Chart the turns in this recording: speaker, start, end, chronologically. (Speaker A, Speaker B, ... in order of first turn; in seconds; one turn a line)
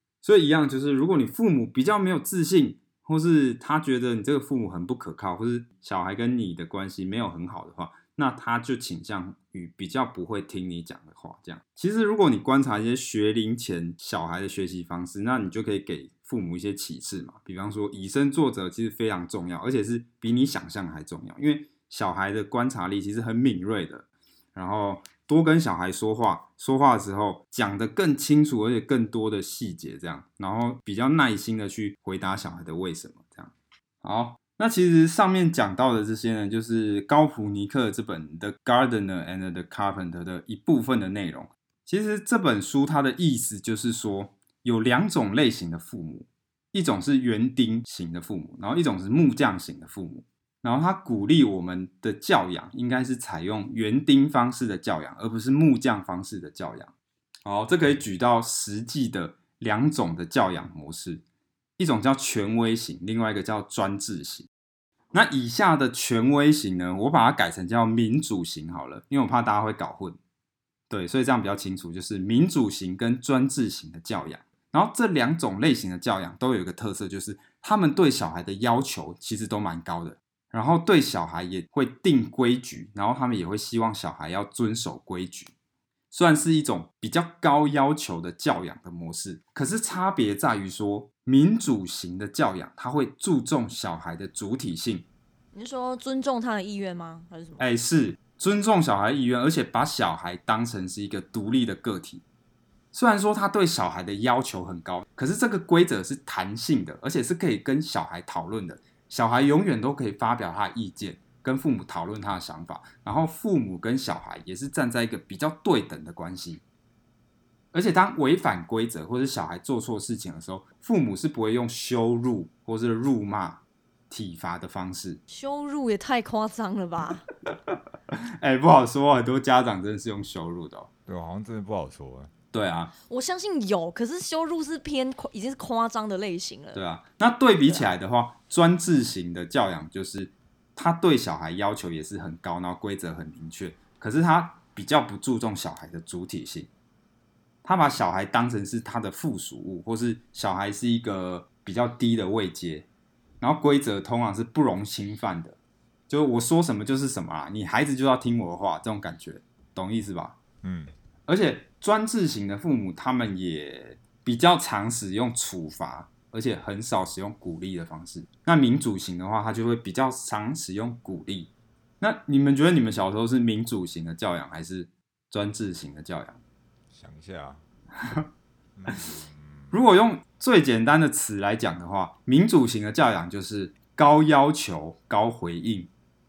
Speaker A: 0.2-33.5
Speaker A: 34.0-56.9
Speaker A: 57.4-61.2
Speaker A: 61.8-64.5
Speaker A: 65.1-70.2
Speaker A: 70.9-85.5
Speaker A: 86.1-95.0
Speaker B: 95.5-97.6
Speaker A: 97.6-102.2
Speaker A: 102.9-116.6
Speaker A: 117.7-125.2
Speaker B: 125.3-127.2
Speaker A: 127.7-130.9
Speaker C: 131.1-132.3
Speaker A: 132.5-132.9
Speaker B: 133.1-136.8
Speaker A: 136.7-146.7
Speaker A: 147.6-152.8
Speaker A: 153.4-155.6
Speaker A: 156.1-160.4
Speaker C: 160.6-160.9
Speaker A: 161.3-176.4
Speaker C: 176.9-177.6
Speaker C: 178.8-179.7
Speaker A: 179.7-185.9